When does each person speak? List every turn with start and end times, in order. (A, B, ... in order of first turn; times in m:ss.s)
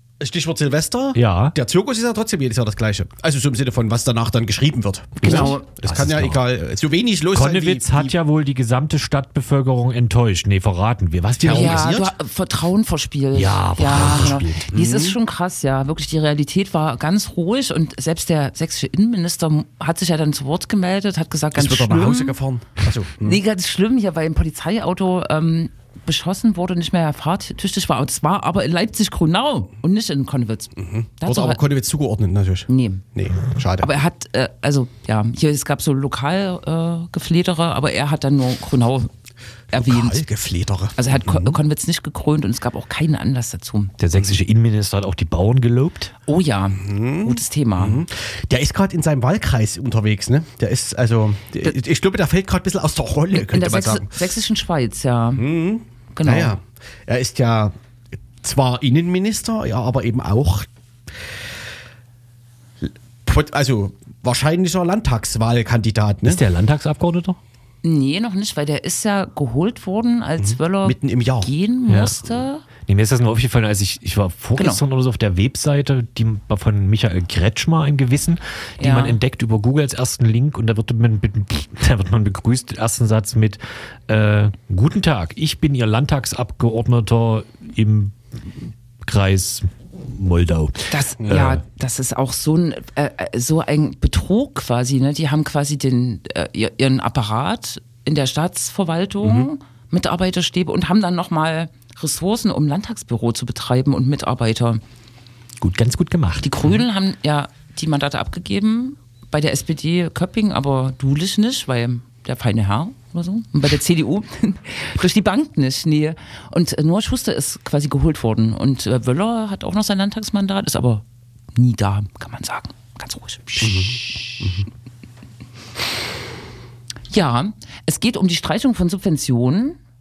0:00.2-0:08.1 A
0:01.1-0:01.5 B
0:05.2-0:06.4 B
0:05.2-0:05.6 C
0:07.3-0:11.9 B
0:11.4-0:12.1 A
0:11.5-0:22.4 C
0:13.3-0:14.7 B
0:14.7-0:15.2 A
0:21.5-0:23.4 A
0:23.2-0:31.6 C
0:30.8-0:33.9 A
0:32.7-0:33.0 C
0:33.8-0:39.1 C
0:39.7-0:40.2 C
0:39.7-0:41.6 A
0:41.0-0:43.9 C
0:44.0-0:46.1 B
0:46.2-0:48.0 C
0:46.8-0:54.1 A
0:53.3-0:55.5 C
0:55.4-0:57.8 A
0:56.1-0:56.6 C
0:58.4-1:01.4 A
1:02.8-1:06.4 A
1:06.2-1:07.4 B
1:07.8-1:12.6 C
1:10.4-1:11.5 A
1:11.9-1:12.2 B
1:12.8-1:31.6 B
1:14.6-1:14.8 C
1:18.8-1:19.2 C
1:30.9-1:44.8 C
1:39.2-1:39.5 A
1:45.6-1:46.7 B
1:46.4-2:04.5 C
2:03.6-2:04.6 A
2:07.1-2:09.8 C